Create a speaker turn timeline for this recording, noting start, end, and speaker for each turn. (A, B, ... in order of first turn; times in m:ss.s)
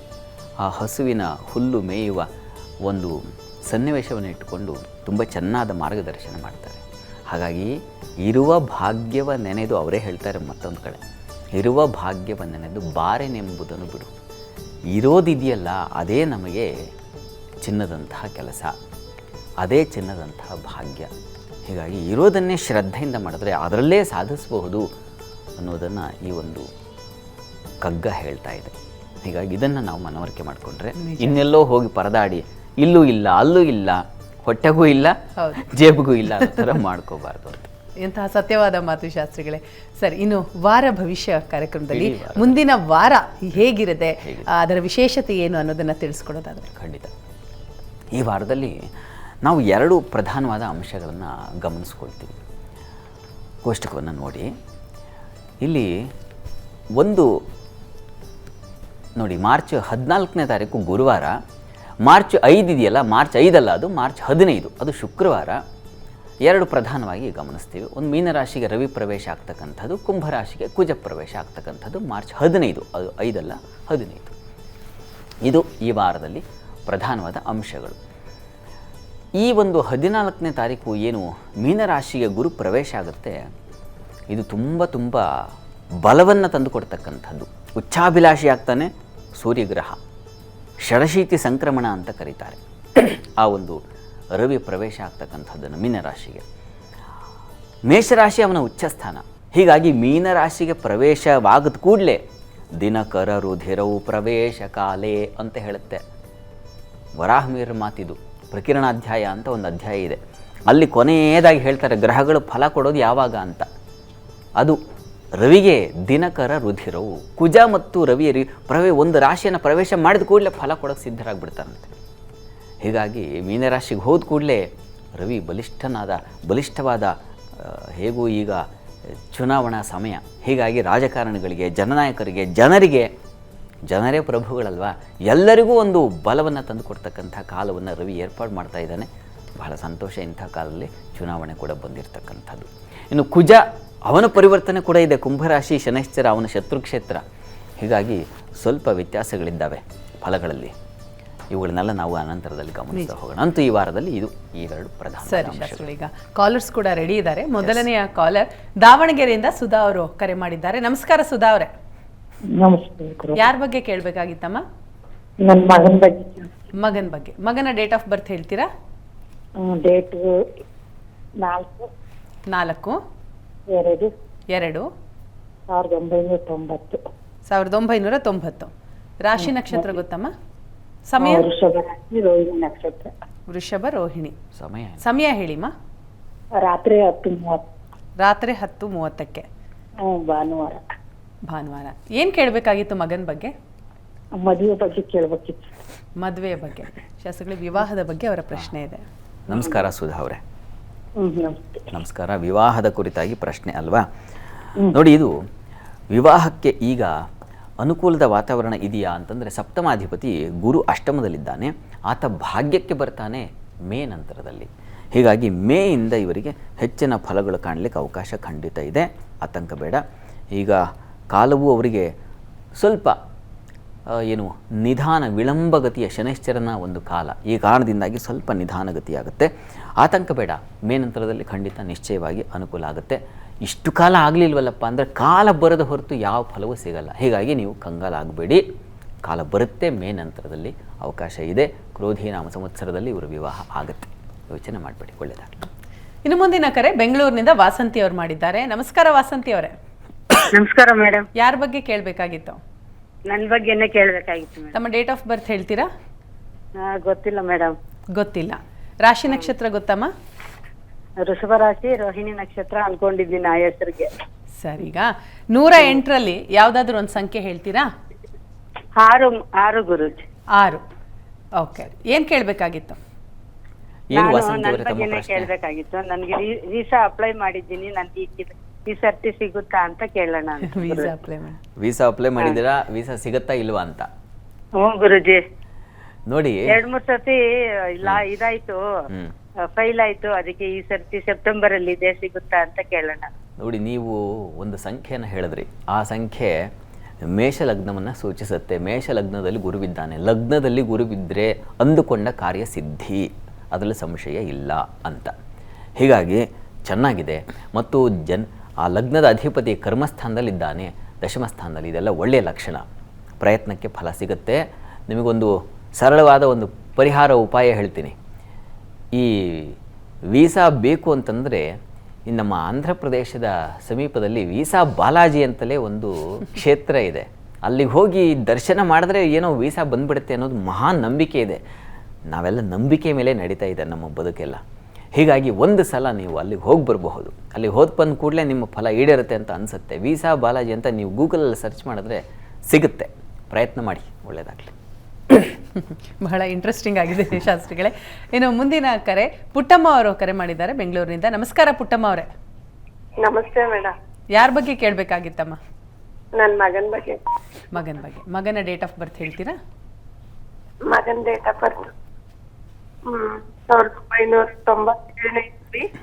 0:00.6-0:02.2 A
0:02.8-0:07.7 A
0:08.2-0:11.0 A
0:11.6-0:14.1 A
0:14.9-0:16.7 A
0:17.6-0:18.7 A
0:19.6-0:21.1 A
0:21.7-0:24.9 A
0:25.6-0:26.7 A
0:27.8-0:28.7 A
0:29.2-0:37.7 A
0:31.0-0:31.4 B
0:35.4-0:35.6 B
0:38.0-0:46.7 B
0:41.9-0:42.6 A
0:44.2-0:44.5 A
0:46.7-0:47.1 A
0:48.1-0:48.8 A
0:49.4-0:52.3 A
0:53.6-0:54.5 A
0:55.6-0:55.9 A
0:57.0-0:57.3 A
0:59.2-1:01.3 A
1:02.0-1:05.6 A
1:06.4-1:14.3 A
1:15.4-1:18.0 A
1:19.4-1:23.4 A
1:24.3-1:25.2 A
1:26.0-1:30.0 A
1:30.8-1:33.8 A
1:34.3-1:36.4 A
1:37.9-1:42.2 A
1:42.8-1:46.0 A
1:47.2-1:53.7 A
1:55.4-2:01.9 A
2:02.8-2:04.6 A
2:05.2-2:08.6 A
2:09.3-2:13.1 A
2:13.9-2:27.2 A
2:27.8-2:30.7 A
2:31.5-2:35.9 A
2:35.2-2:41.7 B
2:42.5-2:43.4 C
2:43.4-2:44.6 B
2:45.4-2:46.5 C
2:46.8-2:48.7 B
2:49.6-2:50.3 C
2:51.4-2:51.9 C
2:52.5-2:53.0 B
2:53.7-2:54.1 C
2:54.5-2:54.9 B
2:55.7-2:57.0 C
2:57.5-2:58.7 B
2:59.2-3:00.3 B
2:59.4-2:59.9 C
3:01.1-3:01.4 B
3:01.2-3:03.1 C
3:03.5-3:04.4 B
3:04.6-3:05.0 A
3:05.0-3:05.7 B
3:06.6-3:07.6 C
3:08.2-3:09.4 B
3:10.0-3:10.8 C
3:11.5-3:13.5 B
3:14.4-3:15.7 C
3:16.2-3:19.0 B
3:19.5-3:20.4 A
3:21.2-3:21.8 C
3:21.9-3:24.0 A
3:24.9-3:25.4 A
3:26.1-3:27.1 A
3:27.8-3:40.0 A
3:40.6-3:40.8 A
3:41.3-3:42.1 A
3:42.8-3:43.2 A
3:44.1-3:49.5 A
3:50.0-3:58.6 A
3:59.2-4:05.7 A
4:06.2-4:09.7 B
4:10.5-4:11.3 D
4:11.4-4:12.6 B
4:13.2-4:14.7 D
4:14.7-4:15.9 B
4:16.8-4:17.8 D
4:18.1-4:20.1 B
4:21.2-4:24.1 D
4:24.6-4:27.9 B
4:29.0-4:30.2 D
4:30.6-4:30.8 B
4:31.6-4:33.0 B
4:34.1-4:35.5 A
4:34.1-4:41.1 D
4:40.6-4:41.6 B
4:41.8-4:44.1 A
4:44.8-4:45.4 D
4:46.3-4:46.8 A
4:46.7-4:47.4 D
4:48.0-4:48.3 A
4:48.0-4:48.8 D
4:49.7-4:53.3 D
4:53.6-4:56.5 A
4:57.3-5:05.3 A
5:06.0-5:12.8 A
5:13.4-5:18.1 A
5:19.1-5:19.8 A
5:20.3-5:21.7 A
5:22.3-5:31.6 A
5:32.3-5:34.6 A
5:35.1-5:44.7 A
5:45.8-5:52.3 B
5:53.2-5:53.9 E
5:54.3-5:55.6 B
5:56.4-5:57.2 E
5:57.7-5:59.6 B
6:00.9-6:01.9 E
6:03.1-6:05.9 E